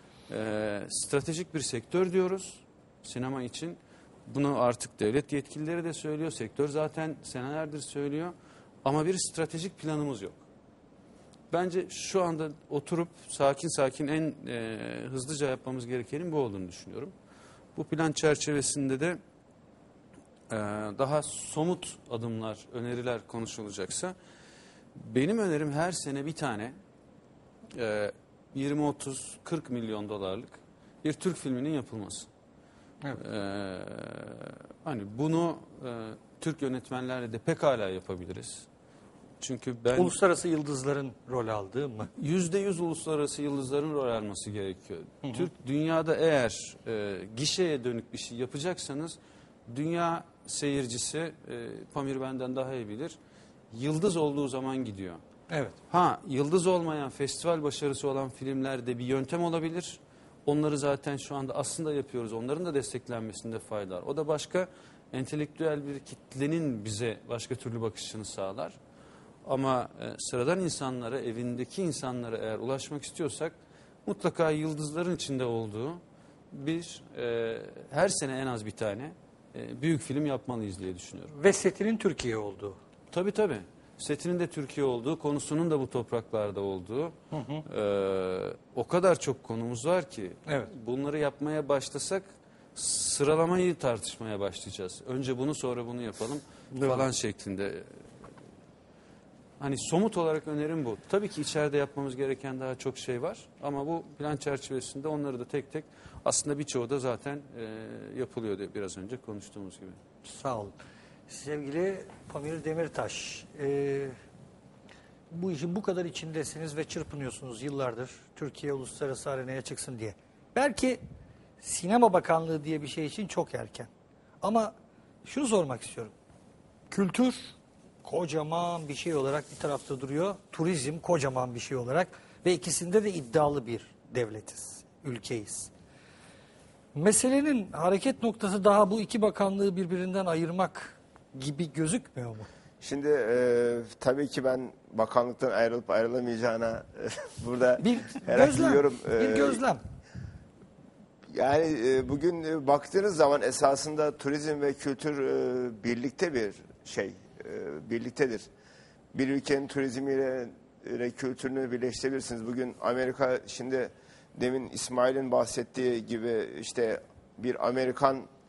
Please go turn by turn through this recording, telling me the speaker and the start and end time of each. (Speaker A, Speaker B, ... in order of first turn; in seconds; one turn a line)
Speaker A: 0.3-8.3
Speaker A: 8.8-10.4
Speaker A: 11.5-17.1
Speaker A: 17.8-19.2
Speaker A: 20.5-24.1
Speaker A: 24.9-26.8
Speaker A: 27.7-32.3
Speaker A: 33.2-38.7
Speaker A: 39.4-40.2
Speaker B: 40.0-42.1
Speaker A: 42.2-53.2
Speaker A: 53.7-55.2
Speaker B: 55.5-55.8
Speaker A: 55.9-68.8
Speaker A: 69.5-81.3
Speaker B: 81.3-82.8
Speaker A: 83.1-98.0
Speaker B: 87.3-87.7
Speaker B: 96.7-97.1
Speaker A: 99.6-110.0
Speaker B: 110.2-110.8
Speaker B: 111.3-114.2
Speaker B: 115.3-121.0
Speaker B: 121.6-123.9
Speaker B: 124.4-124.7
Speaker B: 125.2-126.1
Speaker B: 126.9-127.5
Speaker B: 128.0-135.7
Speaker B: 136.9-142.5
Speaker C: 142.8-149.6
Speaker B: 147.8-149.8
Speaker C: 151.3-158.5
Speaker C: 159.1-168.3